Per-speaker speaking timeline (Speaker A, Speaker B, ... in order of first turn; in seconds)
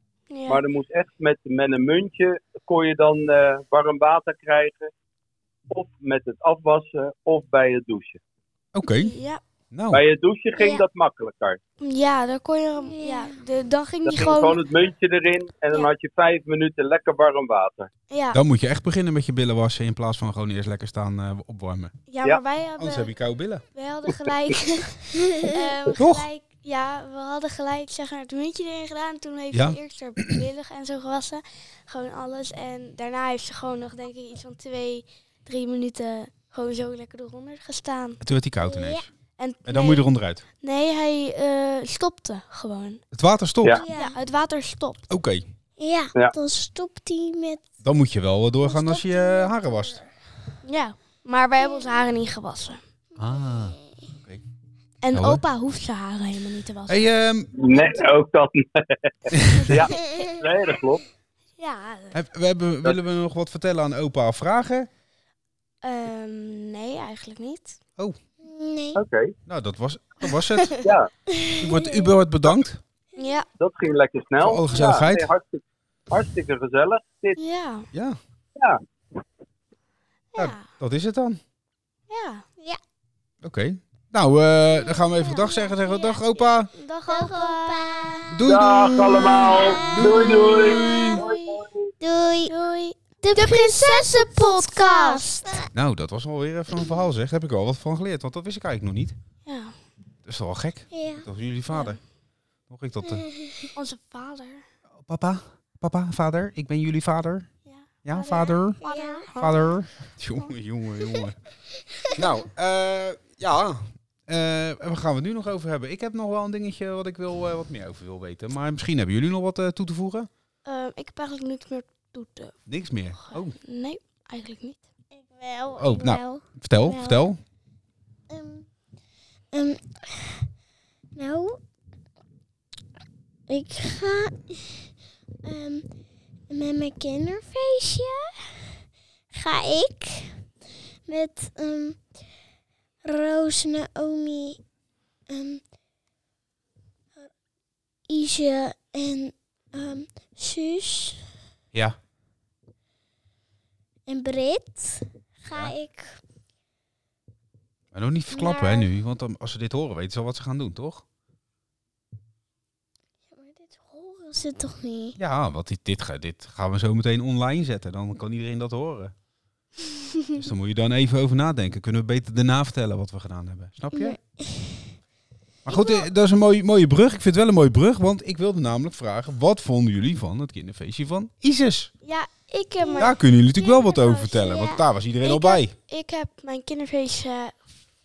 Speaker A: 0.3-0.6, 8.9-9.4, 11.8-14.6, 18.1-18.4, 22.1-23.1, 23.7-38.2, 39.4-40.1, 40.6-43.0, 43.9-45.1, 50.6-52.8, 55.0-57.1, 59.6-60.3, 61.6-62.2, 65.8-67.8, 70.3-70.8, 73.2-73.5, 77.4-77.9, 80.3-80.7, 82.1-82.5, 84.8-88.3, 90.8-91.7, 92.5-95.6, 99.5-99.8, 101.7-102.0, 103.8-104.7, 107.7-109.7, 120.7-122.6, 123.2-124.8, 175.7-176.0, 182.0-183.2, 183.8-184.7, 185.2-187.6
Speaker B: 0.5-4.9, 5.7-8.2, 9.9-11.6, 14.1-17.9, 57.5-61.0, 69.0-69.3, 70.8-71.1, 73.6-77.4, 78.6-78.8, 88.5-91.9
Speaker C: 8.7-9.1, 9.7-10.0, 18.3-21.9, 22.8-23.6, 26.0-26.3, 29.5-30.4, 38.2-39.1, 39.7-40.4, 43.1-43.8, 45.1-45.5, 47.8-50.0, 53.2-54.4, 55.1-55.4, 56.9-57.5, 59.3-59.9, 62.1-64.9, 69.5-70.7, 71.6-72.8, 74.4-75.3, 77.9-78.2, 80.4-81.4, 83.4-86.7, 88.3-91.2, 95.7-99.2, 100.2-102.0, 102.7-103.2, 105.0-107.5, 108.0-108.8, 109.4-111.4, 112.2-120.3, 122.7-123.6, 125.8-127.4, 157.9-161.0, 165.2-169.1, 170.3-174.2, 175.7-181.9, 183.0-185.7
Speaker D: 10.6-10.8, 12.8-13.4, 25.3-25.6, 38.6-39.0, 43.7-44.2, 45.8-47.7, 48.6-50.1, 51.6-52.0, 53.2-54.1, 68.4-69.0, 71.3-72.1, 87.1-88.4, 89.1-90.9, 92.0-92.5, 93.2-95.7, 100.9-101.3, 103.0-103.7, 108.8-109.3, 111.9-112.2, 125.1-127.3, 128.3-128.7, 129.5-130.5, 131.1-131.6, 133.5-134.9, 135.4-135.9, 136.5-138.7, 139.3-140.4, 141.1-142.0, 143.1-144.6, 145.3-145.6, 148.1-151.2, 154.1-156.2, 158.3-158.9, 163.3-165.2, 173.9-174.9, 182.8-183.1, 183.6-184.8